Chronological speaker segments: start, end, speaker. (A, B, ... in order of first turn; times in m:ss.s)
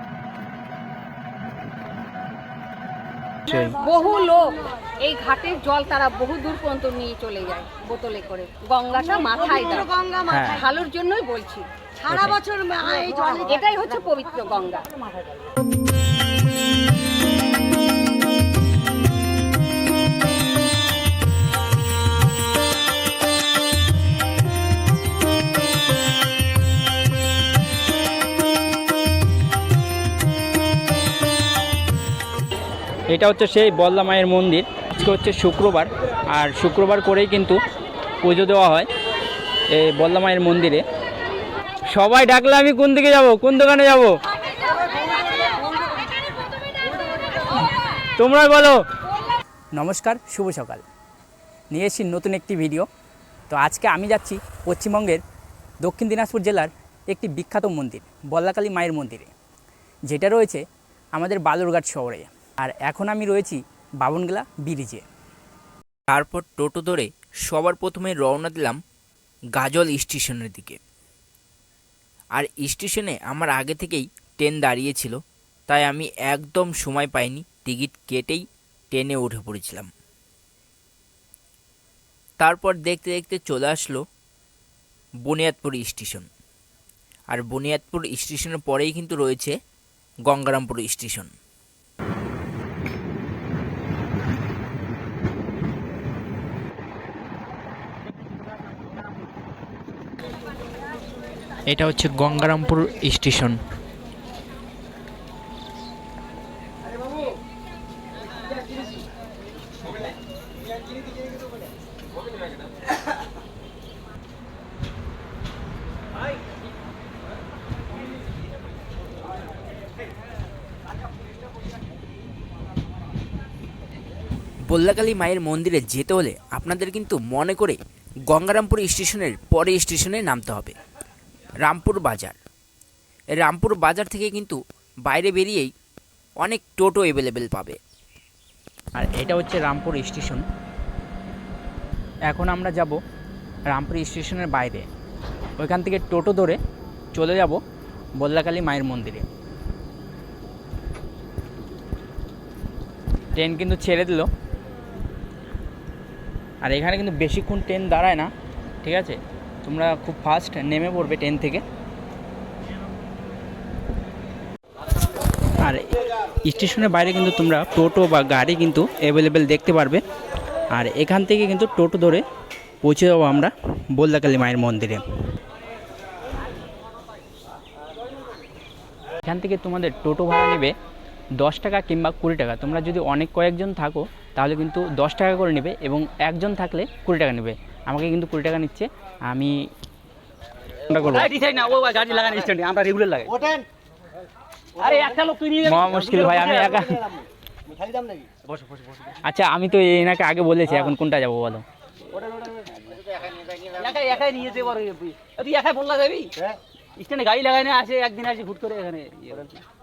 0:03.5-0:03.8 A
0:03.6-0:09.9 B
0:09.8-0:10.5 C
0:10.3-0:10.6 A
0:10.5-0:11.7 B
0:12.0-0:13.5 C
0:12.1-0:12.4 A
0:13.4-0:14.9 B
0:33.1-0:37.6 A
0:38.2-0:38.9 A
0:39.7-0:40.8 A
0:41.9-0:44.2 A
0:48.2-0:48.8 A
0:49.7-0:50.8 A
0:51.7-0:52.9 A
0:53.5-0:55.2 A
0:55.8-0:59.3 A
1:00.1-1:00.6 A
1:01.2-1:05.0 A
1:06.2-1:07.0 A
1:06.2-1:08.8 D
1:09.6-1:10.8 D
1:12.4-1:15.2 D
1:15.7-1:19.9 D
1:16.4-1:16.8 A
1:19.2-1:19.9 A
1:22.4-1:24.0 A
1:22.4-1:24.0 D
1:25.3-1:26.1 D
1:25.3-1:26.2 A
1:27.3-1:28.5 D
1:27.4-1:29.5 A
1:30.3-1:31.3 A
1:41.7-1:43.6 A
2:04.7-2:10.7 D
2:04.8-2:05.9 A
2:11.6-2:12.4 D
2:11.7-2:11.9 A
2:13.4-2:15.7 D
2:16.4-2:17.8 D
2:19.0-2:20.4 A
2:22.3-2:23.0 A
2:23.7-2:24.9 A
2:25.6-2:26.6 A
2:27.1-2:27.6 A
2:28.2-2:29.3 A
2:33.3-2:34.3 A
2:36.6-2:38.3 A
2:38.8-2:41.6 A
2:45.6-2:45.9 A
2:46.4-2:50.0 A
2:50.7-2:52.2 A
2:52.8-2:55.0 A
2:59.2-3:00.7 A
3:01.4-3:09.6 A
3:10.9-3:11.3 A
3:11.2-3:13.6 E
3:14.8-3:16.8 E
3:15.6-3:17.0 A
3:18.5-3:19.1 E
3:19.2-3:21.6 A
3:22.1-3:22.7 E
3:23.6-3:26.3 E
3:27.0-3:29.6 E